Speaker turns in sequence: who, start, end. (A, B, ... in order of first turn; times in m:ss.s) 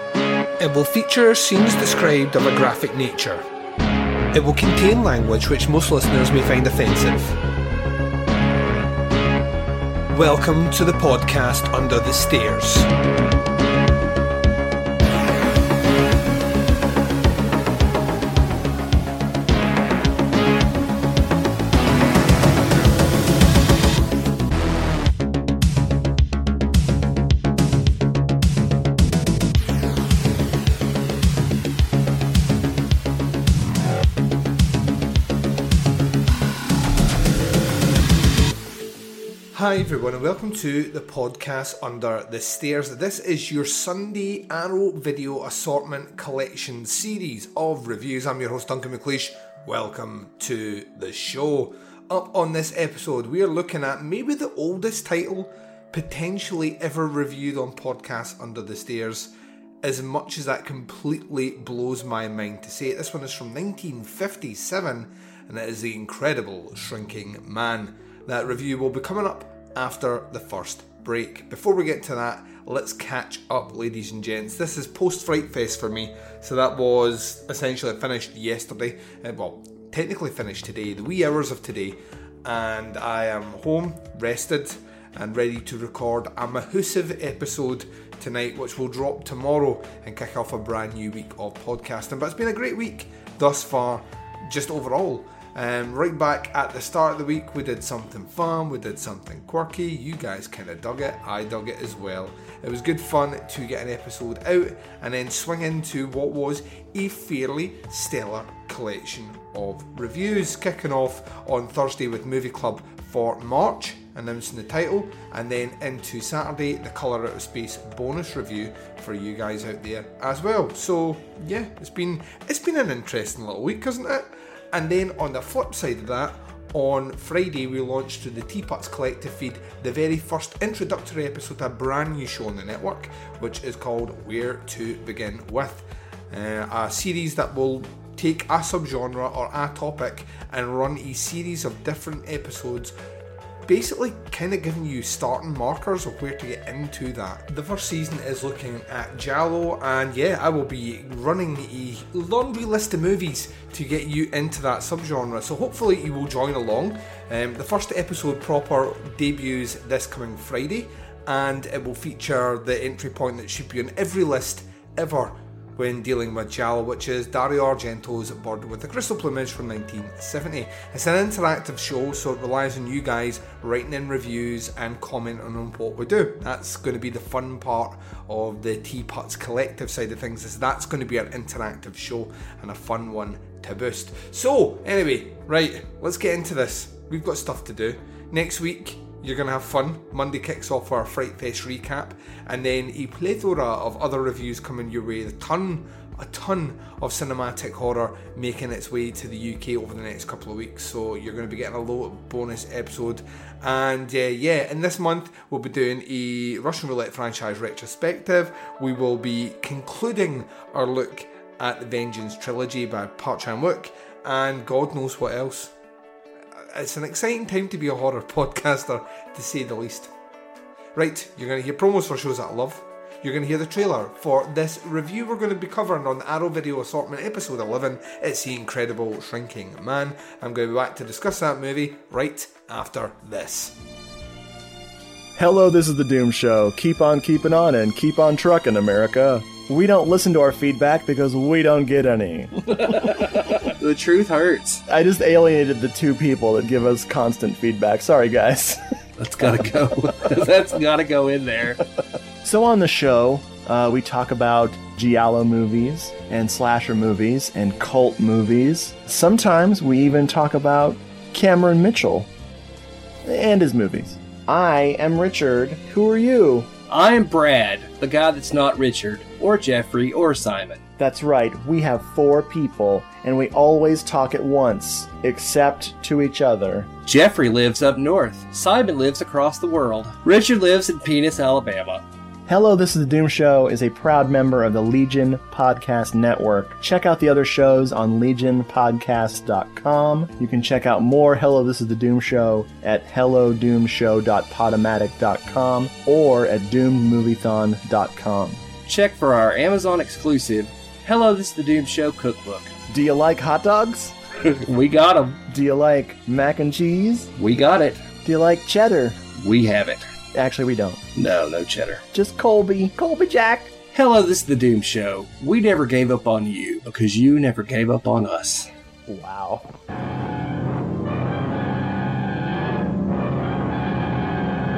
0:00.6-0:03.5 A
0:04.3-0:07.4 A
0:10.1-0:12.9 A
0:39.5-0:59.3 A
0:59.8-2:23.0 A
2:23.7-3:35.7 A
3:36.6-3:40.1 A
3:41.0-3:53.8 A
3:55.4-4:02.5 B
4:02.7-4:04.8 C
4:04.9-4:08.8 B
4:09.2-4:11.8 C
4:12.4-4:22.3 B
4:23.2-4:26.7 B
4:26.9-4:30.8 C
4:31.0-4:36.9 B
4:37.1-4:42.0 C
4:42.5-4:58.6 B
4:58.9-5:02.8 C
5:02.9-5:04.2 B
5:04.4-5:05.4 C
5:05.5-5:07.3 B
5:07.4-5:08.1 C
5:08.2-5:09.2 B
5:09.4-5:10.1 C
5:10.3-5:11.1 B
5:11.2-5:12.0 C
5:12.1-5:13.8 B
5:13.9-5:18.7 C
5:19.1-5:19.7 B